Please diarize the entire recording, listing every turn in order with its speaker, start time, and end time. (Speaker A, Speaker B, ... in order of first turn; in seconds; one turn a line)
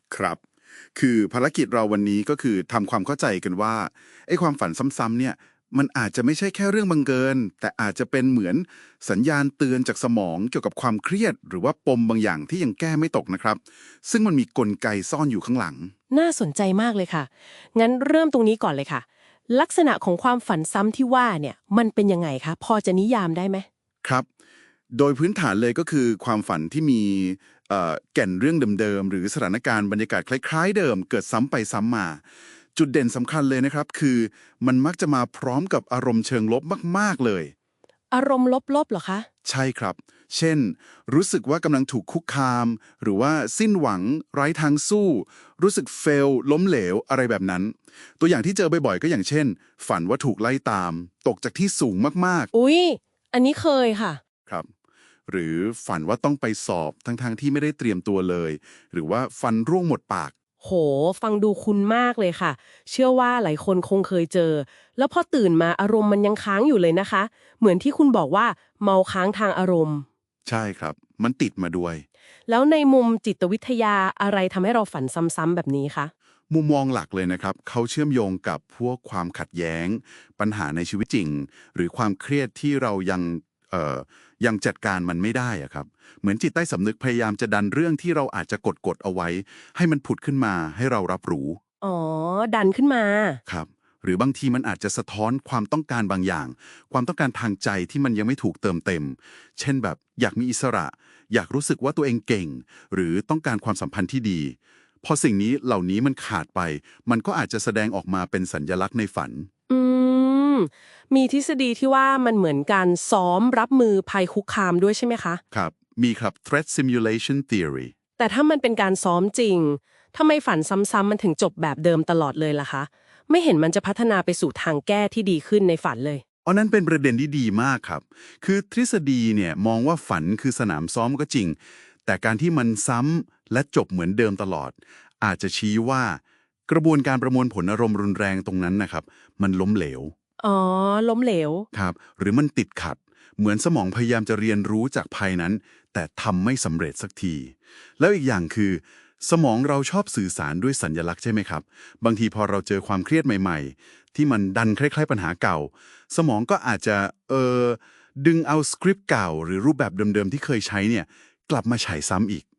Speaker A: 0.1-0.4
Speaker A: 0.9-15.9
Speaker B: 16.1-23.7
Speaker A: 24.9-32.2
Speaker A: 32.8-37.5
Speaker B: 38.1-39.3
Speaker A: 39.5-52.5
Speaker B: 52.5-54.2
Speaker A: 55.3-60.3
Speaker B: 60.6-70.0
Speaker A: 70.5-72.0
Speaker B: 72.5-76.1
Speaker A: 76.5-91.6
Speaker B: 91.8-93.4
Speaker A: 93.5-109.5
Speaker B: 109.7-115.4
Speaker A: 115.5-117.9
Speaker B: 118.2-126.2
Speaker A: 126.5-140.1
Speaker B: 140.4-141.7
Speaker A: 141.7-162.4